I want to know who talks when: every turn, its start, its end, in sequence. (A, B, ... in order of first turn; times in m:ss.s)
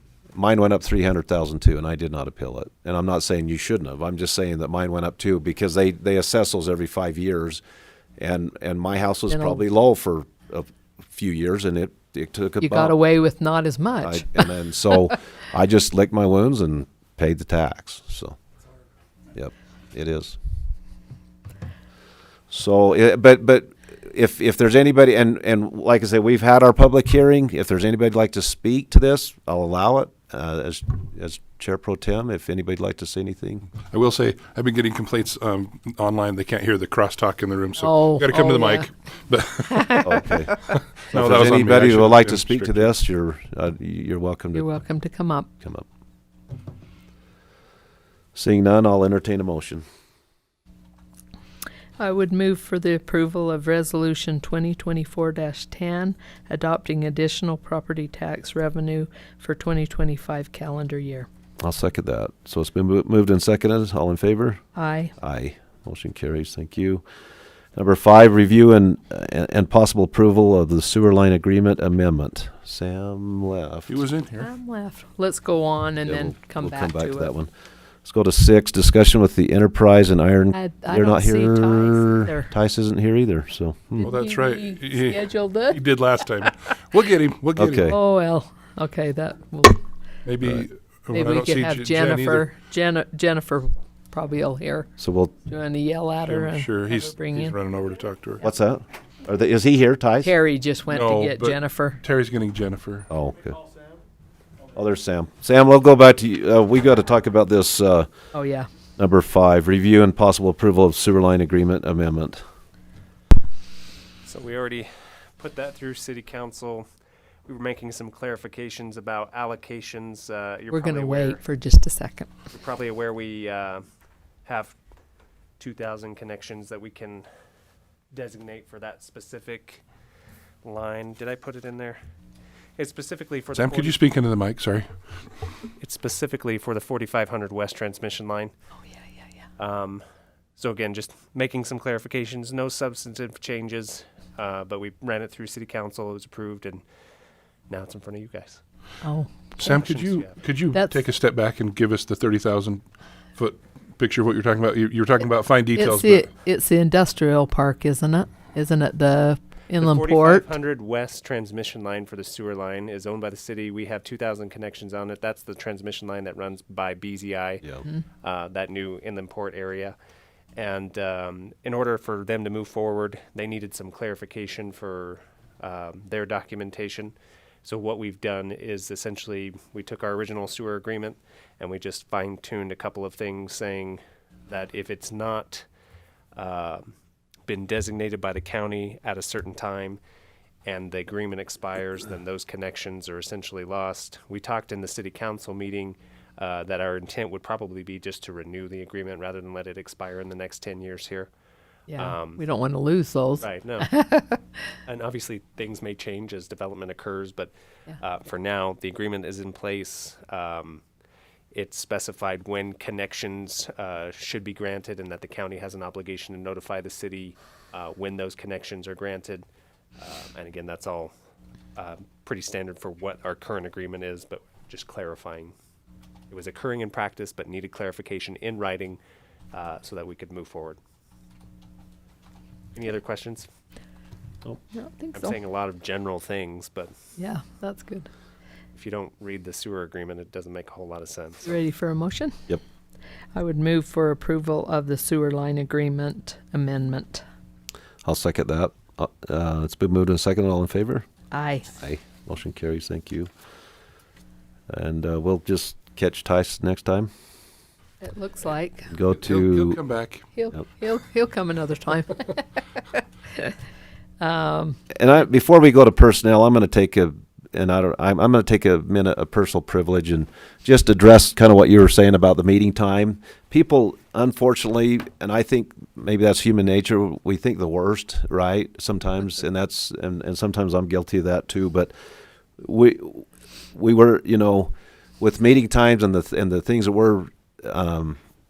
0:00.3-0:07.6 A
0:08.2-0:13.0 A
0:09.3-0:09.6 B
0:12.6-0:14.4 B
0:14.0-0:18.4 A
0:19.3-0:20.4 A
0:22.5-0:33.7 A
0:33.8-0:42.9 C
0:37.8-0:38.9 B
0:40.0-0:44.8 A
0:44.5-0:45.5 B
0:48.3-0:49.8 A
0:52.0-1:01.3 B
1:01.6-1:04.6 A
1:04.8-1:05.1 B
1:05.2-1:07.0 A
1:07.8-1:14.0 A
1:13.9-1:14.5 C
1:14.4-1:17.3 B
1:16.0-1:17.5 A
1:18.0-1:24.1 A
1:20.5-1:22.5 B
1:24.0-1:25.8 B
1:24.0-1:27.9 C
1:27.6-1:28.0 A
1:27.9-1:29.8 B
1:30.2-1:32.5 C
1:31.1-1:34.9 B
1:35.0-1:35.3 A
1:35.4-1:37.6 B
1:36.2-1:38.4 C
1:38.4-1:40.3 A
1:40.2-1:42.0 B
1:40.9-1:43.1 C
1:43.1-1:43.6 A
1:44.7-1:48.1 A
1:48.3-1:48.7 B
1:49.0-1:52.4 A
1:54.2-1:56.9 D
1:57.4-2:01.4 D
2:00.7-2:02.3 B
2:02.5-2:03.8 D
2:04.4-2:04.8 D
2:05.6-2:07.3 D
2:08.1-2:09.8 D
2:10.6-2:12.0 D
2:12.8-2:14.0 D
2:13.5-2:15.0 C
2:15.8-2:18.5 D
2:19.6-2:20.0 D
2:20.6-2:26.8 D
2:27.7-2:28.6 D
2:29.0-2:29.3 B
2:29.6-2:36.3 C
2:29.6-2:30.4 D
2:30.7-2:31.0 B
2:35.7-2:40.5 B
2:39.8-2:47.7 D
2:48.2-2:50.0 D
2:50.6-3:05.7 D
3:06.3-3:06.9 D
3:07.4-3:10.0 D
3:10.6-3:21.3 D
3:21.9-3:24.4 B
3:21.9-3:22.4 D
3:23.4-3:23.9 D
3:24.8-3:30.8 D
3:31.5-3:39.4 D
3:40.0-3:41.1 D
3:41.8-3:45.5 D
3:46.3-3:49.0 D
3:49.5-3:50.8 D
3:52.7-3:53.5 D
3:54.7-3:55.4 B
3:55.1-3:56.9 D
3:57.2-3:58.1 B
3:58.7-4:01.5 D
4:01.4-4:02.4 B
4:03.3-4:07.2 B
4:08.0-4:11.0 A
4:11.3-4:11.7 B
4:11.8-4:13.3 A
4:14.7-4:17.1 A
4:18.0-4:18.9 B
4:18.9-4:19.8 A
4:19.2-4:20.2 C
4:20.3-4:22.4 B
4:24.2-4:24.8 B
4:24.9-4:41.9 A
4:42.6-4:48.2 A